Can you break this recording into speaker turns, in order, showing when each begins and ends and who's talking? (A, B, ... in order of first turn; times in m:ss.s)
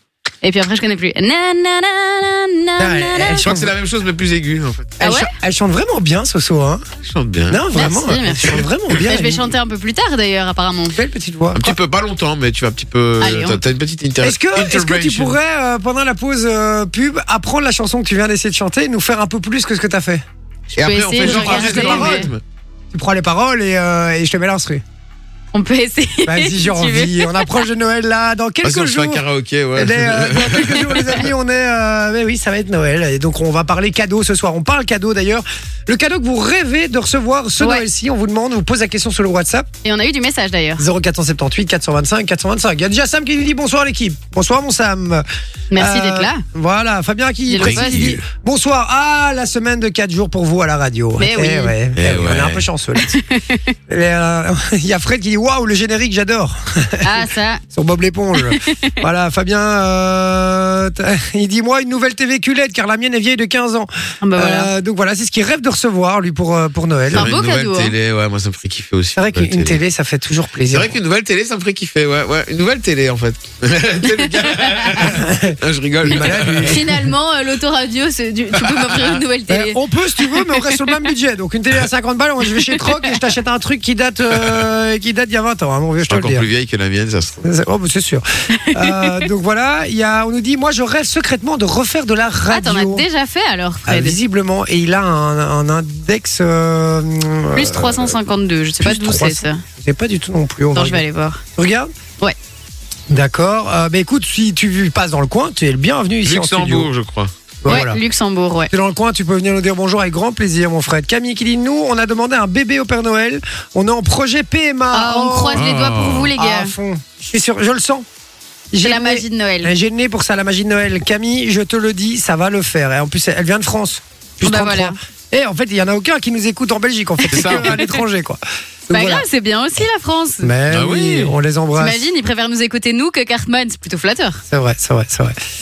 0:00.4-0:03.5 A
0:02.8-0:03.7 B
0:03.4-0:05.0 C
0:05.0-0:05.3 A
0:05.0-0:06.8 B
0:07.0-0:07.6 C
0:07.5-0:09.5 B
0:07.7-0:11.0 A
0:10.9-0:11.8 B
0:11.5-0:15.4 C
0:13.2-0:13.6 A
0:14.2-0:20.2 B
0:20.7-0:22.3 A
0:20.7-0:22.4 C
0:21.2-0:22.3 B
0:22.9-0:24.8 B
0:25.5-0:27.6 A
0:26.2-0:29.2 B
0:28.6-0:31.1 C
0:29.8-0:39.7 B
0:37.6-0:37.8 A
0:39.8-0:40.8 A
0:40.8-0:53.1 B
0:45.7-0:46.4 A
0:47.5-0:48.1 A
0:47.6-0:48.2 C
0:51.2-0:51.7 A
0:52.0-0:52.6 C
0:53.0-0:53.7 A
0:53.9-1:07.3 B
0:57.0-0:57.6 A
0:58.4-0:58.9 A
1:04.2-1:04.7 A
1:07.1-1:07.9 A
1:07.1-1:09.8 C
1:09.2-1:11.0 B
1:10.7-1:16.8 C
1:14.1-1:15.1 A
1:15.0-1:17.1 B
1:16.6-1:20.9 A
1:18.6-1:19.2 C
1:19.5-1:26.5 B
1:26.1-1:27.4 C
1:27.4-1:33.0 B
1:28.8-1:29.2 A
1:32.5-1:34.2 A
1:33.8-1:38.2 B
1:37.5-1:39.6 A
1:38.8-1:41.0 B
1:40.7-1:41.4 A
1:41.5-1:41.9 B
1:43.1-1:46.9 B
1:46.2-1:47.3 C
1:47.6-1:48.0 B
1:47.7-1:48.7 A
1:48.7-1:55.7 B
1:54.9-1:56.7 A
1:55.5-1:56.3 C
1:56.4-1:58.0 B
1:58.7-2:09.2 B
1:58.8-1:59.7 A
2:04.4-2:05.0 A
2:07.2-2:07.8 A
2:07.3-2:07.8 C
2:08.9-2:10.5 A
2:10.4-2:12.0 B
2:10.7-2:11.3 C
2:11.8-2:14.4 A
2:14.5-2:15.4 B